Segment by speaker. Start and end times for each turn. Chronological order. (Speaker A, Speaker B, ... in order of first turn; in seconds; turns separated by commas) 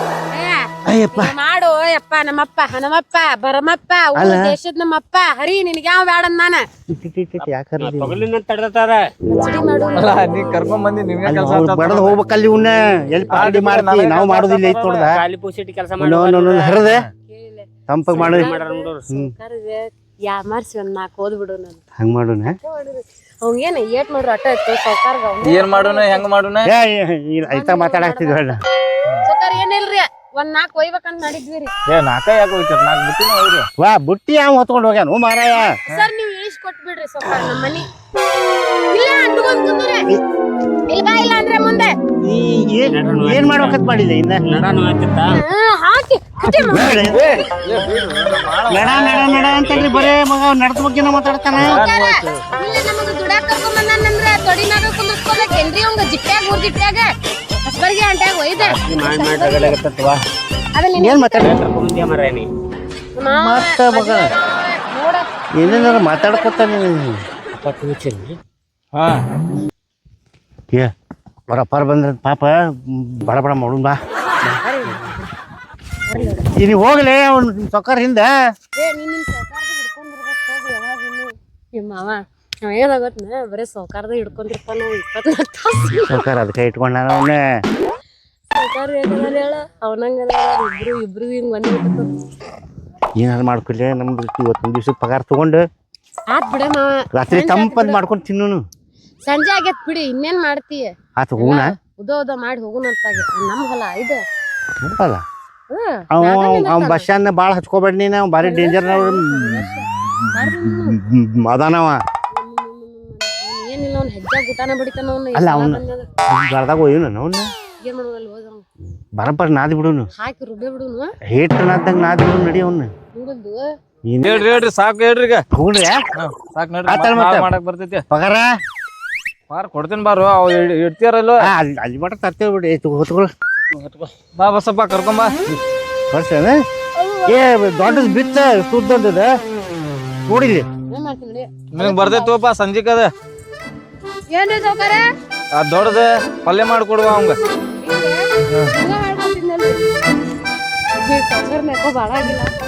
Speaker A: 0.3-6.6, Speaker B: 0.9-1.3, Speaker B: 4.1-4.5, Speaker B: 6.9-8.2, Speaker C: 7.8-9.1, Speaker A: 9.3-10.3, Speaker D: 9.9-12.2, Speaker B: 11.2-15.2, Speaker D: 13.3-15.1, Speaker C: 14.6-16.8, Speaker B: 16.0-17.0, Speaker D: 16.8-17.1, Speaker A: 17.3-21.8, Speaker B: 17.9-18.6, Speaker C: 18.1-19.1, Speaker B: 22.0-22.6, Speaker A: 22.6-26.2, Speaker D: 25.4-26.7, Speaker B: 26.6-28.6, Speaker A: 27.5-28.6, Speaker A: 29.2-31.7, Speaker D: 31.9-33.7, Speaker B: 33.8-35.7, Speaker A: 35.7-37.9, Speaker A: 38.9-40.1, Speaker A: 40.9-41.9, Speaker B: 42.2-44.4, Speaker C: 42.9-43.8, Speaker C: 44.4-45.4, Speaker A: 45.3-47.2, Speaker B: 46.7-47.4, Speaker D: 47.0-50.1, Speaker B: 48.7-51.8, Speaker C: 49.0-50.1, Speaker D: 51.5-52.6, Speaker A: 51.6-57.1, Speaker A: 57.6-59.8, Speaker C: 58.6-60.2, Speaker A: 60.7-61.6, Speaker B: 60.9-61.5, Speaker C: 61.4-62.5, Speaker A: 63.1-66.9, Speaker B: 63.4-64.3, Speaker B: 65.6-67.2, Speaker C: 67.5-68.4, Speaker D: 68.9-69.2, Speaker B: 71.5-74.0, Speaker A: 74.4-75.3, Speaker A: 76.1-76.5, Speaker B: 76.5-78.3, Speaker A: 78.7-86.2, Speaker B: 86.0-87.4, Speaker A: 88.5-92.1, Speaker B: 93.2-95.6, Speaker A: 96.3-98.0, Speaker B: 97.1-98.6, Speaker A: 99.2-104.2, Speaker B: 101.2-101.7, Speaker B: 104.8-105.2, Speaker A: 105.7-107.0, Speaker B: 106.1-112.0, Speaker A: 108.4-111.0, Speaker A: 112.3-116.1, Speaker B: 115.3-117.5, Speaker A: 117.8-118.6, Speaker B: 119.2-120.1, Speaker A: 120.2-121.1, Speaker B: 121.3-122.9, Speaker A: 123.1-123.7, Speaker B: 124.1-124.5, Speaker D: 124.2-125.4, Speaker B: 125.5-126.0, Speaker D: 126.1-128.0, Speaker B: 126.9-127.5, Speaker B: 128.1-128.5, Speaker D: 129.5-131.4, Speaker B: 131.4-133.3, Speaker D: 134.3-135.3, Speaker B: 136.1-136.6, Speaker A: 136.9-137.4, Speaker B: 137.3-139.3, Speaker B: 140.3-140.7, Speaker A: 140.9-142.4, Speaker D: 141.7-143.1, Speaker A: 144.3-145.1, Speaker D: 145.5-147.4, Speaker A: 147.8-149.8, Speaker A: 151.0-152.5